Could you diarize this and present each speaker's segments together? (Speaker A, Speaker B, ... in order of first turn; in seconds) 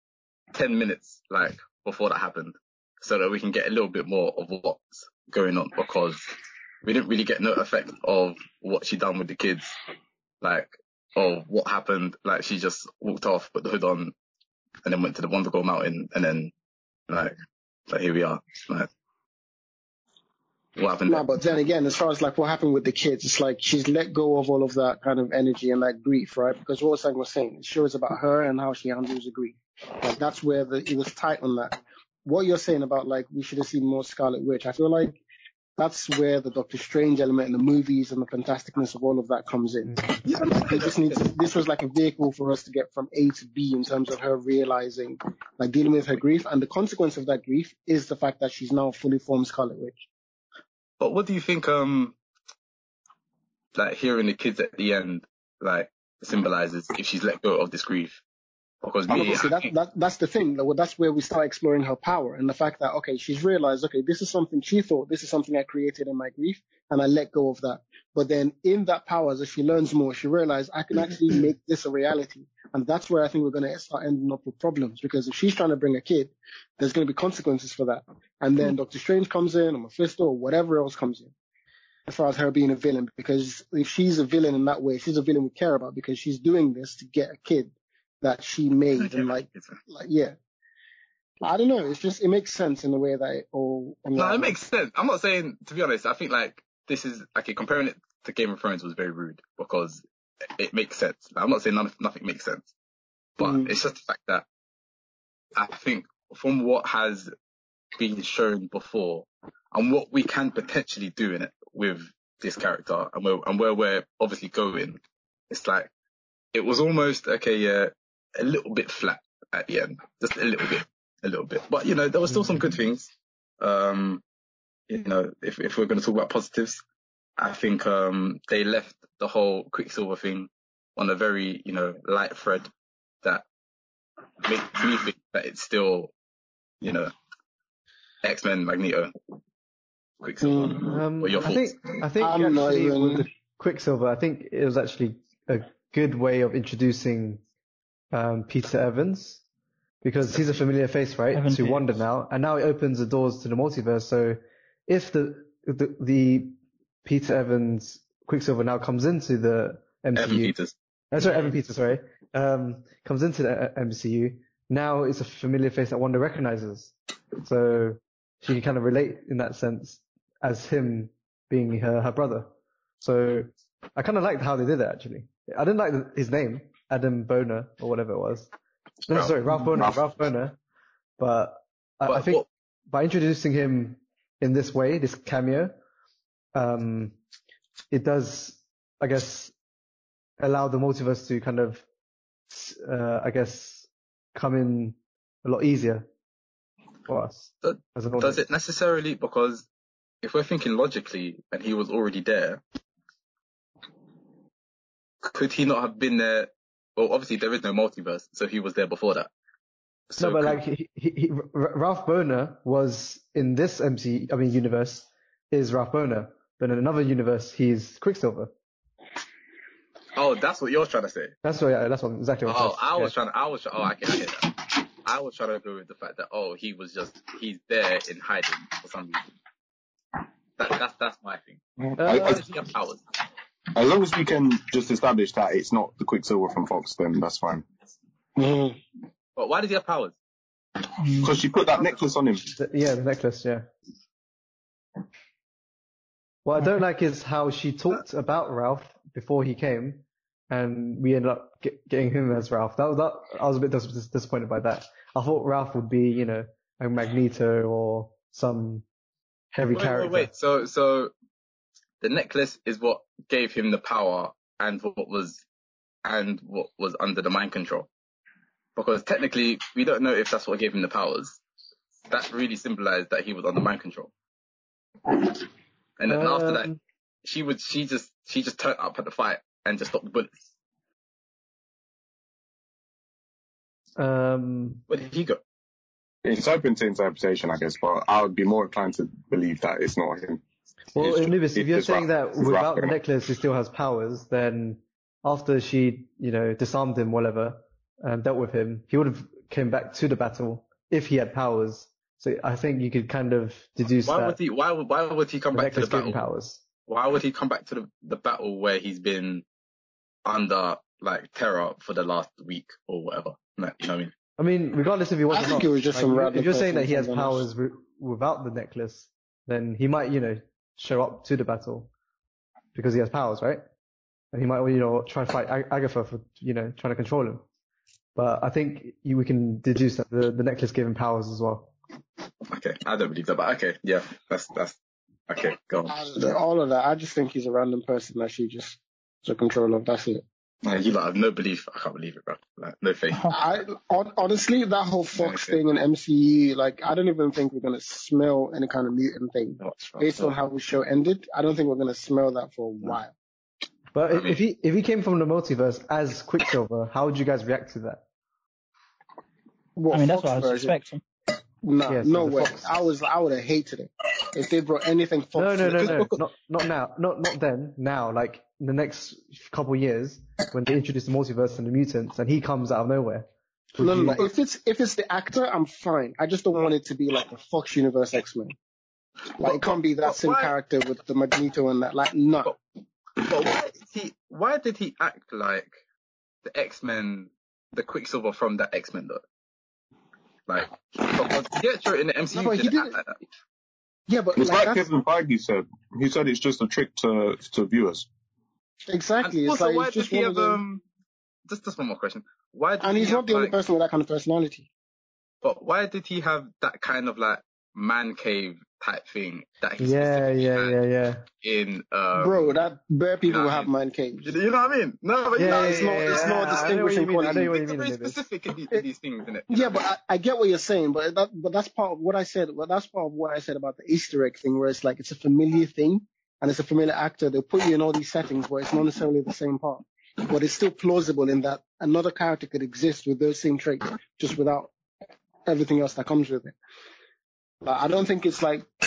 Speaker A: 0.5-6.3, 6.8-9.8, 10.4-14.1, 14.8-16.5, 17.1-17.4, 17.9-18.9, 20.8-21.3, 40.2-41.2, 51.0-52.2, 53.8-58.2, 58.8-59.7, 89.0-89.8, 94.2-100.0, 100.6-102.7, 103.4-104.5, 105.5-107.3, 108.0-115.9, 116.5-123.1, 123.6-124.2, 124.9-126.8, 127.4-132.7, 134.4-136.1, 136.8-137.1, 138.2-139.1, 140.2-141.8, 160.2-160.8, 179.1-179.3, 182.1-182.5, 197.6-199.7, 200.2-202.6, 205.2-209.3, 210.1-210.6, 220.2-221.3, 222.5-229.2, 230.6-231.6, 232.1-233.0, 239.4-240.2, 259.7-261.1, 262.0-265.4, 266.1-267.9, 268.8-271.4, 272.1-274.1, 276.0-280.4, 284.9-285.4, 304.1-306.3, 306.9-309.4, 310.2-314.1, 332.5-334.8, 335.3-336.4, 340.6-343.3, 345.2-345.6, 349.6-350.4, 354.1-354.4, 365.6-366.2, 379.4-380.5, 383.2-385.7, 386.5-389.2, 390.5-393.2, 399.2-400.8, 401.5-403.6, 405.4-410.8, 411.4-412.6, 413.3-413.7, 414.2-419.8
Speaker B: 21.1-35.2, 35.8-50.0, 59.1-81.3, 82.1-90.4, 91.4-94.6, 103.4-103.7, 140.4-140.9, 142.2-143.3, 238.4-238.8, 315.3-317.4, 335.9-340.2, 343.3-353.1, 359.8-360.8, 361.6-366.1, 373.8-378.5, 379.4-382.5, 392.3-393.0, 394.1-394.9, 398.9-400.6, 402.8-404.7, 412.1-414.3, 415.4-417.5, 419.5-434.7, 435.5-436.6, 437.6-438.7
Speaker C: 140.8-147.4, 148.1-149.4, 150.0-160.5, 161.1-172.5, 173.0-178.5, 179.1-180.6, 181.2-185.8, 186.5-187.2, 187.9-189.5, 190.4-191.8, 192.5-196.1, 197.1-198.4, 210.2-218.5, 221.4-223.1, 232.0-232.4, 242.6-243.7, 246.4-258.9, 259.5-260.3, 276.1-276.8, 284.0-284.8, 290.9-304.4, 305.5-306.6, 314.4-321.9, 322.7-323.6, 324.3-327.4, 328.2-331.7, 353.9-358.0, 361.9-362.7, 365.4-374.3, 409.8-411.3, 415.4-418.2
Speaker D: 151.3-151.9, 241.0-241.4, 359.9-361.0
Speaker E: 231.9-232.4, 233.7-237.7, 241.2-242.6, 286.2-290.4, 291.0-293.0, 394.4-398.1